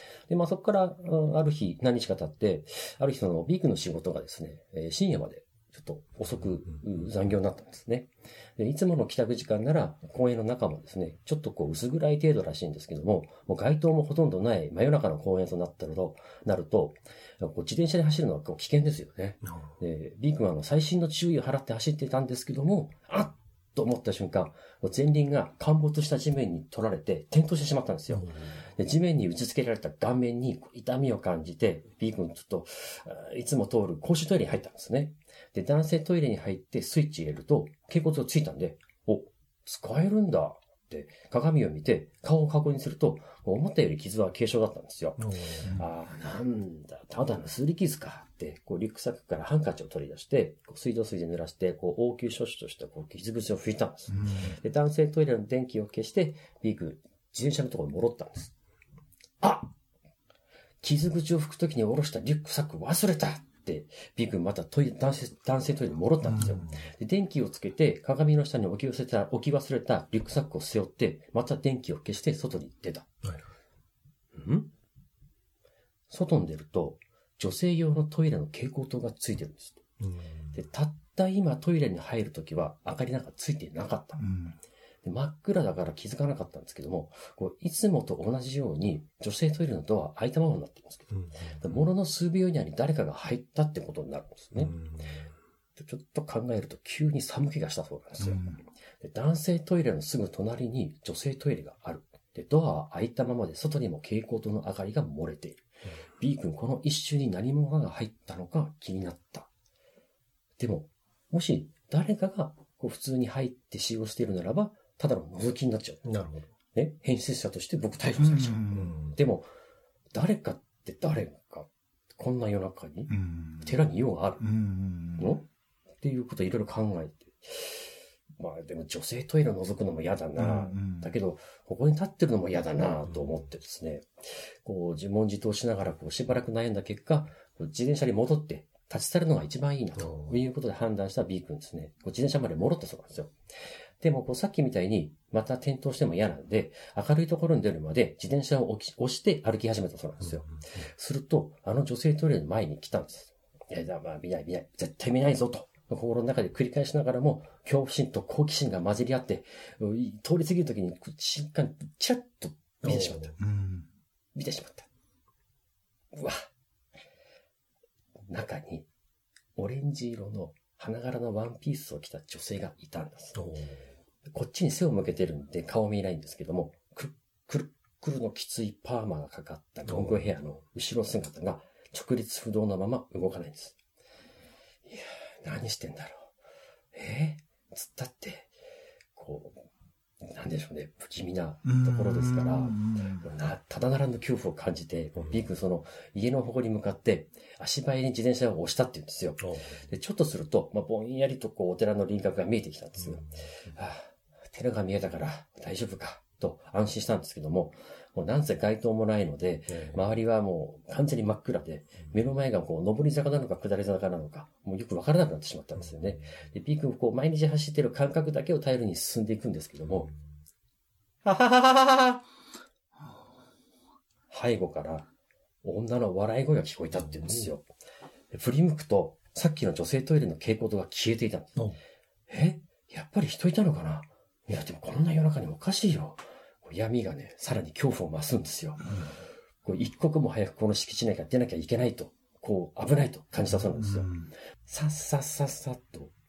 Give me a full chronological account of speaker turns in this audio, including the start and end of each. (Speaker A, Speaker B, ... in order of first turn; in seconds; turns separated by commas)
Speaker A: 0.3-58.5, Speaker B: 19.4-19.8, Speaker B: 28.1-28.6, Speaker B: 45.2-45.8, Speaker C: 54.1-54.5, Speaker A: 59.4-59.7, Speaker A: 60.8-73.1, Speaker C: 66.2-66.7, Speaker B: 73.2-73.5, Speaker A: 74.3-74.7, Speaker A: 76.1-79.8, Speaker B: 80.0-80.5, Speaker A: 80.5-84.2, Speaker C: 84.2-84.6, Speaker A: 85.0-94.8, Speaker B: 91.1-91.8, Speaker B: 94.6-95.3, Speaker A: 95.8-98.5, Speaker C: 98.2-98.6, Speaker A: 99.0-105.7, Speaker A: 106.2-109.5, Speaker A: 110.6-116.1, Speaker B: 116.0-116.5, Speaker A: 116.8-119.5, Speaker C: 118.2-119.0, Speaker B: 118.7-119.1, Speaker A: 120.1-124.5, Speaker C: 123.1-123.8, Speaker C: 124.4-125.4, Speaker A: 125.2-125.5, Speaker A: 126.0-143.3, Speaker C: 130.4-131.2, Speaker B: 140.0-140.3, Speaker A: 144.0-163.3, Speaker B: 162.8-163.3, Speaker C: 163.4-163.9, Speaker A: 164.3-164.9, Speaker A: 166.1-166.5, Speaker A: 168.3-168.9, Speaker A: 169.6-173.4, Speaker B: 173.3-173.8, Speaker A: 174.3-183.8, Speaker B: 179.9-180.3, Speaker A: 184.9-186.3, Speaker A: 186.9-188.5, Speaker A: 189.2-189.7, Speaker A: 190.2-220.1, Speaker C: 191.6-193.3, Speaker B: 199.4-199.8, Speaker B: 203.0-203.4, Speaker B: 209.7-210.0, Speaker A: 221.2-222.2, Speaker A: 224.3-225.1, Speaker A: 225.6-227.7, Speaker B: 226.9-227.5, Speaker A: 228.3-231.6, Speaker A: 232.3-239.0, Speaker C: 238.8-239.1, Speaker A: 239.6-246.1, Speaker C: 243.7-244.3